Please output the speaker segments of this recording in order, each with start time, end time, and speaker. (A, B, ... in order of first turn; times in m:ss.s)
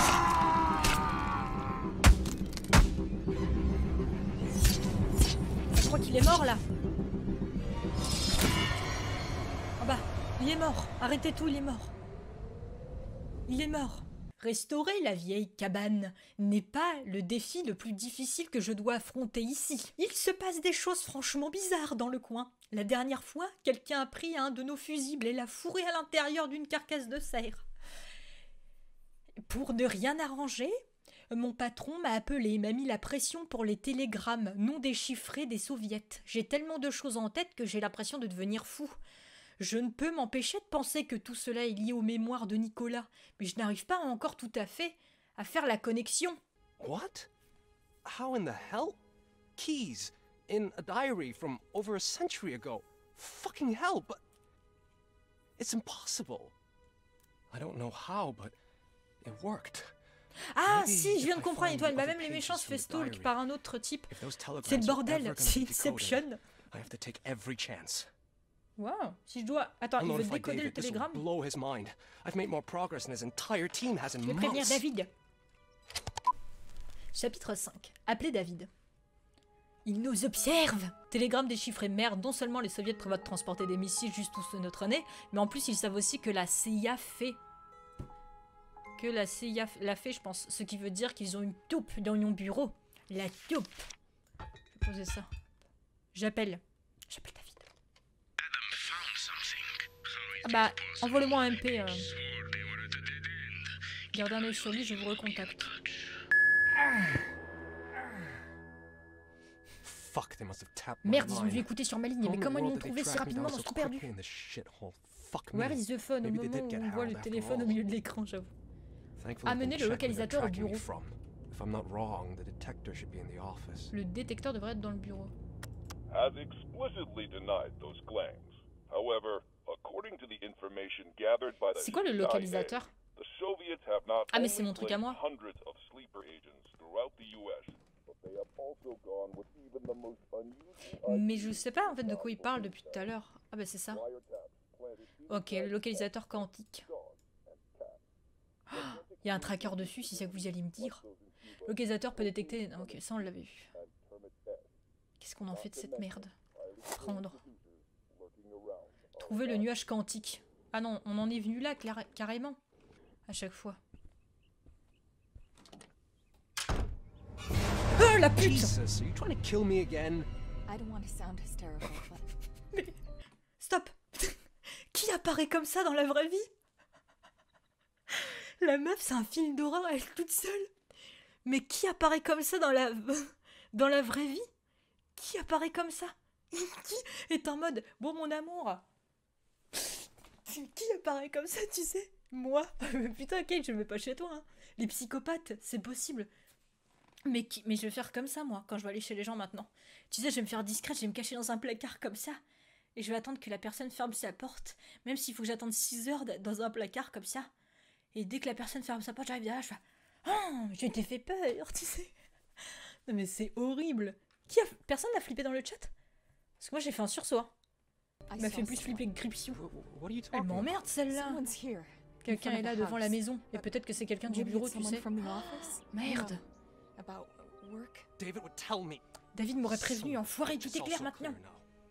0:05.7-0:06.6 A
0:09.8-0:11.9 A
0:13.5-0:27.6 A
0:29.4-0:30.8 A
0:31.3-0:39.0 A
0:39.6-0:46.4 A
0:46.8-0:47.3 B
0:48.0-0:49.0 B
0:49.6-0:54.2 B
0:55.6-0:56.5 B
0:57.5-0:58.5 B
0:59.2-0:59.9 B
1:00.5-1:04.1 A
1:00.6-1:03.3 B
1:04.1-1:08.1 B
1:04.6-1:06.4 A
1:08.8-1:11.2 A
1:10.0-1:14.8 B
1:14.2-1:15.1 A
1:17.1-1:18.7 A
1:19.8-1:27.4 A
1:29.0-1:33.8 A
1:34.7-1:35.3 A
1:36.1-1:37.6 A
1:40.4-1:42.1 A
1:44.1-1:45.7 A
1:49.8-1:51.7 B
1:51.0-1:54.1 A
1:52.2-1:57.8 B
1:55.5-1:58.5 A
1:59.2-2:03.9 B
1:59.4-2:00.8 A
2:03.9-2:05.3 A
2:06.1-2:23.0 C
2:11.7-2:12.9 A
2:14.3-2:15.2 A
2:21.0-2:24.0 A
2:23.9-2:26.2 C
2:25.3-2:26.9 A
2:26.9-2:28.0 C
2:28.7-2:31.0 A
2:28.7-2:34.7 C
2:31.6-2:33.7 A
2:35.2-2:36.3 A
2:35.5-2:39.7 C
2:36.9-2:37.4 A
2:39.2-2:42.6 A
2:43.3-2:43.8 A
2:48.0-2:48.7 A
2:48.2-2:50.3 B
2:50.7-2:52.2 D
2:53.6-2:56.5 A
2:58.1-3:00.7 A
3:01.4-3:04.4 A
3:05.2-3:08.8 A
3:09.7-3:16.3 A
3:17.2-3:22.4 A
3:23.0-3:27.5 A
3:28.1-3:32.1 A
3:33.1-3:35.9 A
3:36.6-3:37.5 A
3:38.3-3:39.1 D
3:38.4-3:39.6 A
3:39.5-3:40.9 B
3:40.3-3:41.4 A
3:41.1-3:46.4 D
3:42.2-3:46.4 A
3:47.0-3:48.1 D
3:48.2-3:49.0 B
3:49.3-3:51.4 A
3:49.6-3:51.6 B